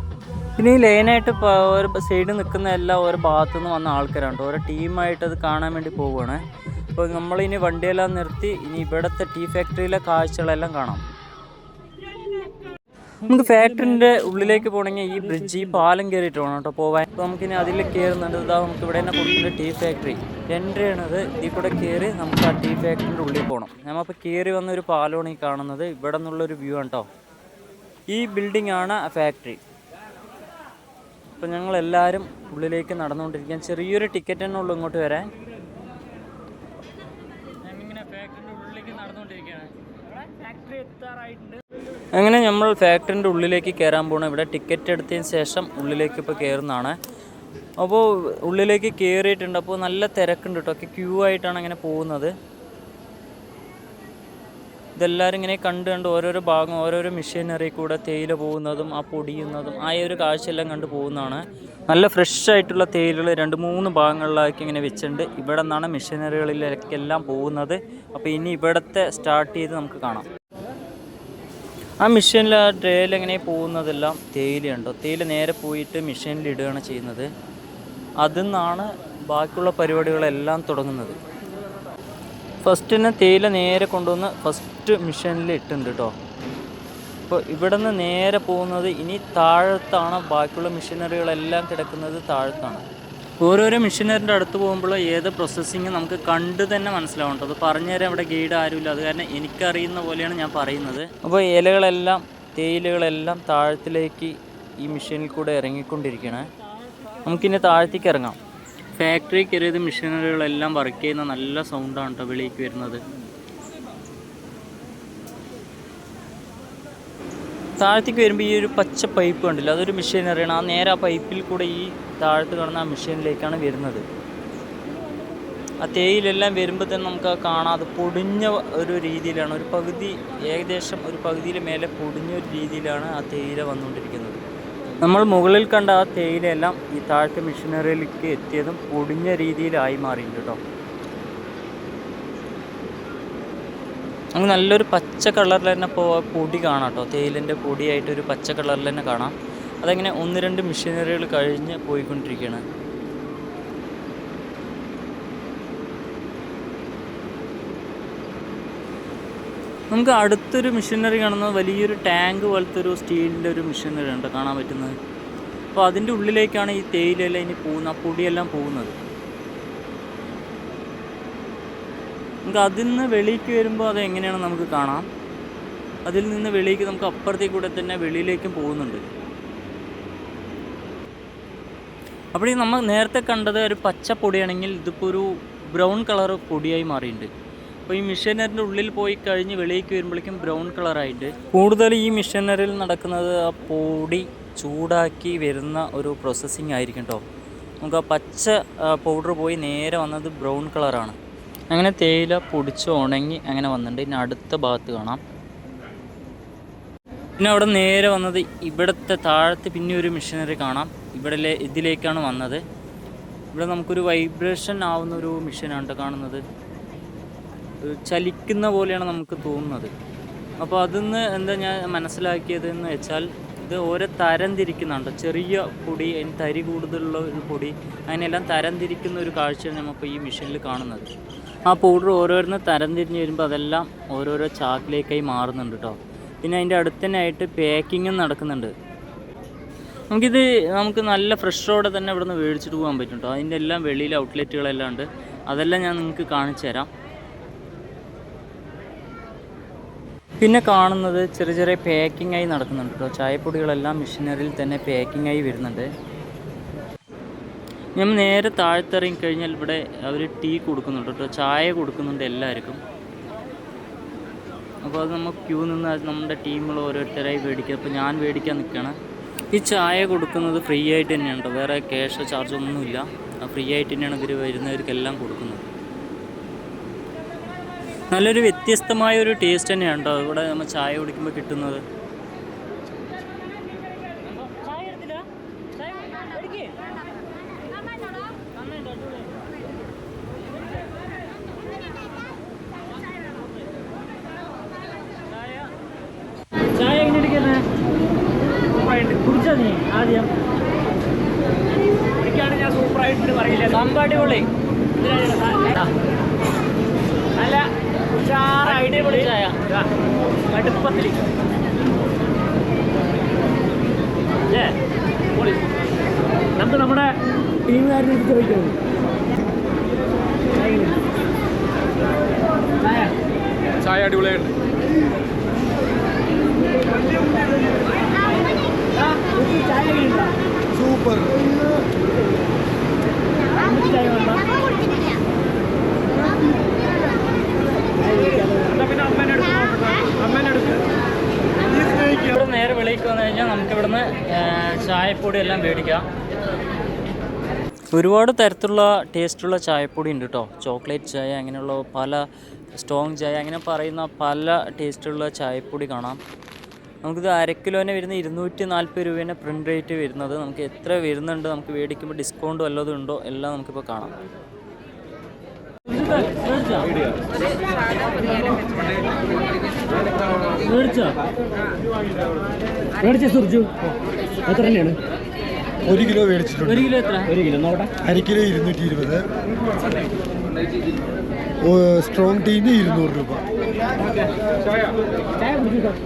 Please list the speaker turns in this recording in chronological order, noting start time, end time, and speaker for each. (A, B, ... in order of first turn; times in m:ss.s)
0:00.6-0:06.4 A
0:07.0-0:11.0 A
0:13.2-0:27.1 A
0:28.1-0:29.6 A
0:31.4-0:35.3 A
0:37.6-0:39.7 A
0:40.3-0:41.5 A
0:42.1-0:47.0 A
0:47.8-0:52.3 A
0:55.0-1:10.3 A
1:12.0-1:17.3 A
1:18.2-1:21.2 A
1:22.6-1:26.1 A
1:27.3-1:32.8 A
1:33.4-1:46.5 A
1:47.2-1:48.4 A
1:49.0-1:53.0 A
1:57.8-2:04.0 A
2:05.8-2:14.4 A
2:15.0-2:20.6 A
2:24.3-2:32.6 A
2:39.9-2:45.0 A
2:45.7-2:48.9 A
2:52.4-2:55.0 A
2:56.0-2:59.0 A
3:02.3-3:07.3 A
3:07.9-3:17.2 A
3:17.8-3:21.2 A
3:21.7-3:25.2 A
3:27.4-3:32.6 A
3:33.5-3:36.4 A
3:37.8-3:39.9 A
3:40.6-3:51.1 A
3:51.7-3:58.7 A
4:00.1-4:06.9 A
4:10.4-4:15.9 A
4:18.0-4:22.8 A
4:24.8-4:29.0 A
4:29.5-4:35.6 A
4:38.1-4:41.8 A
4:44.3-4:45.3 A
4:46.0-4:46.7 A
4:48.8-4:49.2 A
4:56.7-4:57.6 A
4:58.8-5:00.3 A
4:58.9-4:59.3 B
5:02.2-5:03.7 B
5:03.5-5:04.5 A
5:05.0-5:05.9 B
5:07.4-5:09.8 B
5:08.4-5:09.7 A
5:10.5-5:11.3 B
5:16.6-5:18.8 B
5:20.6-5:21.0 B
5:22.8-5:23.1 B
5:24.0-5:24.4 C
5:29.0-5:30.3 B
5:30.7-5:31.5 C
5:33.6-5:34.5 B
5:38.1-5:39.6 B
5:41.8-5:46.0 A
5:47.9-5:56.2 A
5:57.0-6:04.1 A
6:05.9-6:06.9 A
6:10.6-6:11.2 A
6:13.0-6:13.8 B
6:14.4-6:15.0 B
6:15.9-6:16.7 C
6:16.6-6:17.4 A
6:17.4-6:17.9 B
6:18.0-6:19.3 C
6:21.6-6:23.4 C